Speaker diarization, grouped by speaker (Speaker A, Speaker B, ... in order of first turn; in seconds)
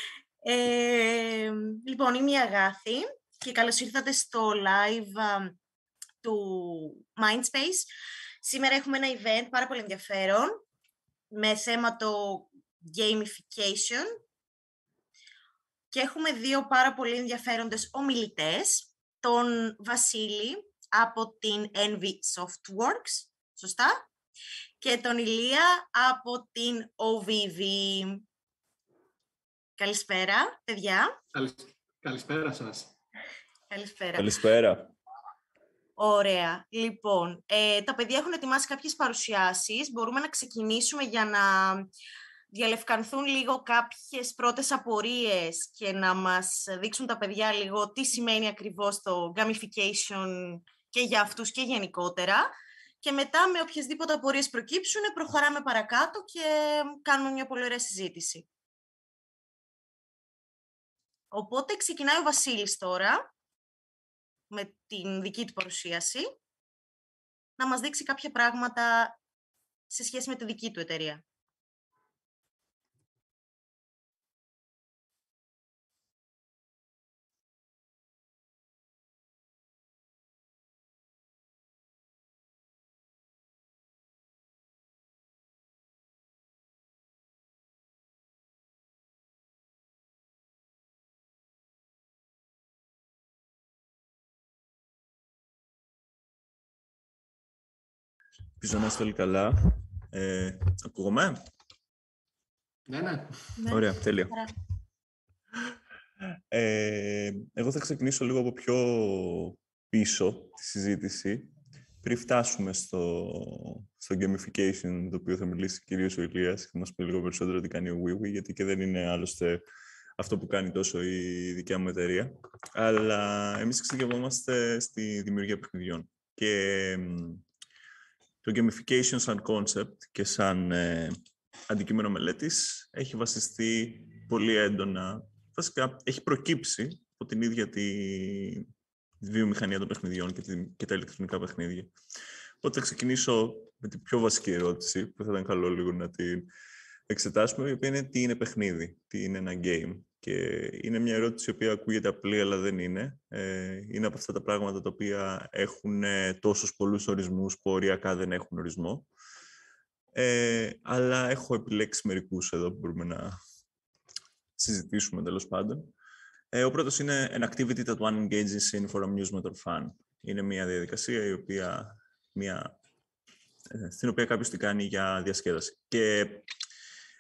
Speaker A: 0.5-5.6, 6.2-7.9, 8.4-10.6, 11.3-14.1, 15.9-24.1, 24.8-28.2, 29.8-31.1, 33.7-34.3, 36.0-41.9, 42.5-58.5, 61.3-63.3, 64.5-66.3, 67.6-69.2, 69.9-71.2, 103.6-104.5
Speaker B: 31.3-32.9, 102.9-103.5
Speaker C: 34.1-34.9, 98.6-101.4, 103.7-104.4, 106.5-111.5, 112.0-119.6, 120.2-127.4, 128.4-138.7, 139.2-141.9, 142.6-146.5, 147.1-159.1, 160.2-163.4, 164.6-165.9, 166.5-172.7, 173.7-176.5